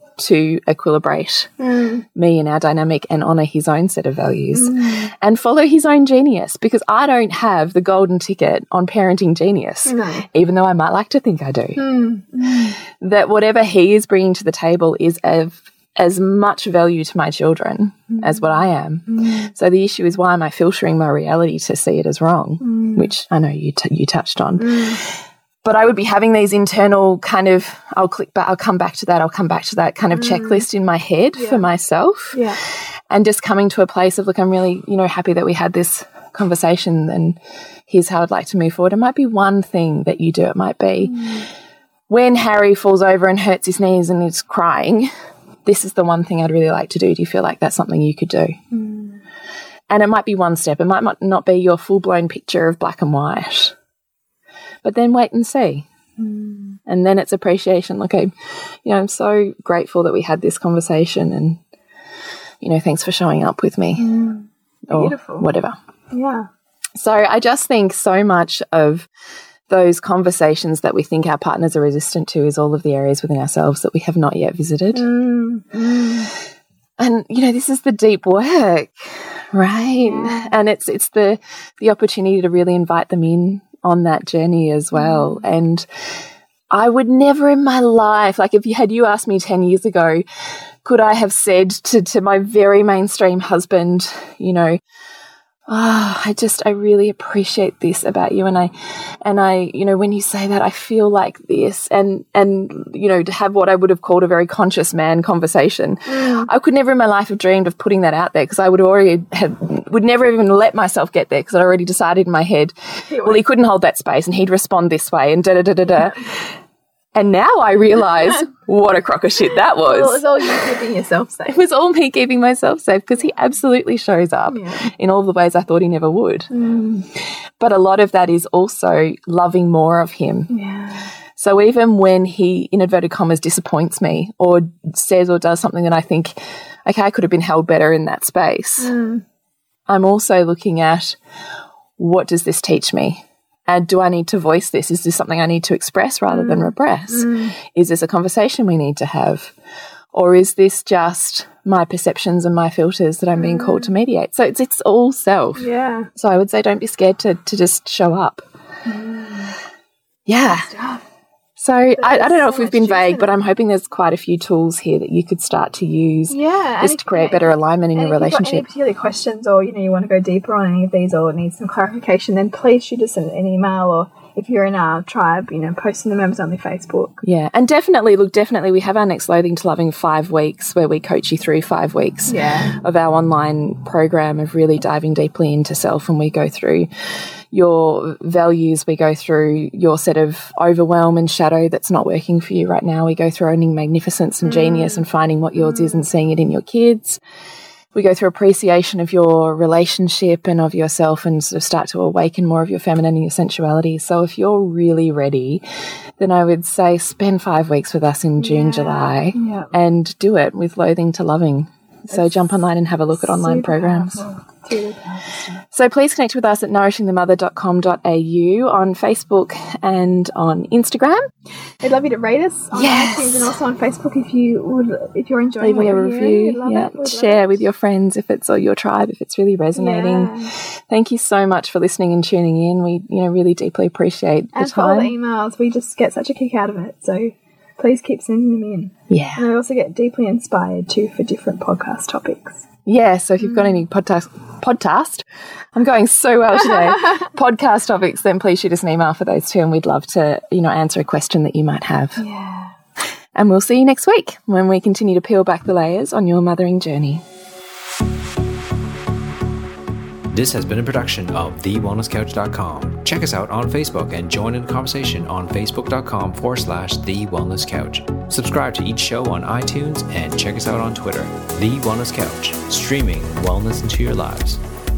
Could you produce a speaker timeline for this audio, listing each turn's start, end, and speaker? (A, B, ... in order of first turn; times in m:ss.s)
0:00.2-0:01.5 A
0:01.6-0:02.0 B
0:02.1-0:11.8 A
0:04.5-0:05.1 B
0:09.8-0:10.2 B
0:11.8-0:12.8 B
0:13.0-0:24.9 A
0:18.1-0:19.5 B
0:22.6-0:23.1 B
0:24.6-0:25.0 B
0:25.6-0:32.4 A
0:30.1-0:30.6 B
0:31.4-0:31.6 B
0:32.3-0:32.6 B
0:33.1-0:41.2 A
0:41.0-0:41.5 B
0:42.1-0:45.1 A
0:45.6-0:48.6 A
0:48.7-0:49.2 B
0:49.9-0:53.7 A
0:54.8-0:55.8 A
0:56.2-0:56.8 B
0:56.9-0:58.3 A
0:58.8-1:01.6 A
1:02.6-1:04.1 A
1:04.0-1:05.5 B
1:04.9-1:05.8 A
1:06.1-1:06.5 B
1:07.0-1:09.1 A
1:09.7-1:15.0 A
1:14.9-1:16.3 B
1:17.0-1:25.8 A
1:20.0-1:20.6 B
1:24.9-1:25.4 B
1:26.7-1:30.2 A
1:30.8-1:34.8 A
1:35.7-1:38.7 A
1:39.2-1:56.3 A
1:46.1-1:46.5 B
1:53.1-1:53.4 B
1:57.1-2:00.2 A
1:59.7-2:01.6 B
2:01.5-2:06.5 A
2:04.5-2:04.9 B
2:06.5-2:07.0 B
2:07.6-2:10.5 A
2:10.5-2:11.1 B
2:11.4-2:18.9 A
2:18.8-2:19.2 B
2:19.9-2:21.2 A
2:22.0-2:29.5 A
2:26.3-2:27.5 B
2:30.1-2:38.4 A
2:33.3-2:33.9 B
2:35.6-2:36.1 B
2:38.8-2:39.5 B
2:40.3-2:40.7 A
2:40.4-2:41.0 B
2:41.6-2:48.6 A
2:42.0-2:43.3 B
2:46.3-2:57.2 B
2:57.2-3:06.9 A
3:02.3-3:02.7 B
3:07.5-3:17.2 A
3:14.4-3:15.0 B
3:15.6-3:16.0 B
3:17.9-3:25.6 A
3:26.2-3:34.2 A
3:28.4-3:29.7 B
3:32.1-3:35.6 B
3:35.7-3:41.2 A
3:41.8-3:47.7 B
3:42.7-3:43.5 A
3:45.6-3:55.1 A
3:49.7-3:50.5 B
3:54.5-4:02.6 B
3:59.1-3:59.4 A
4:02.8-4:12.2 A
4:03.4-4:03.8 B
4:12.2-4:12.7 B
4:13.3-4:17.2 A
4:20.3-4:34.6 C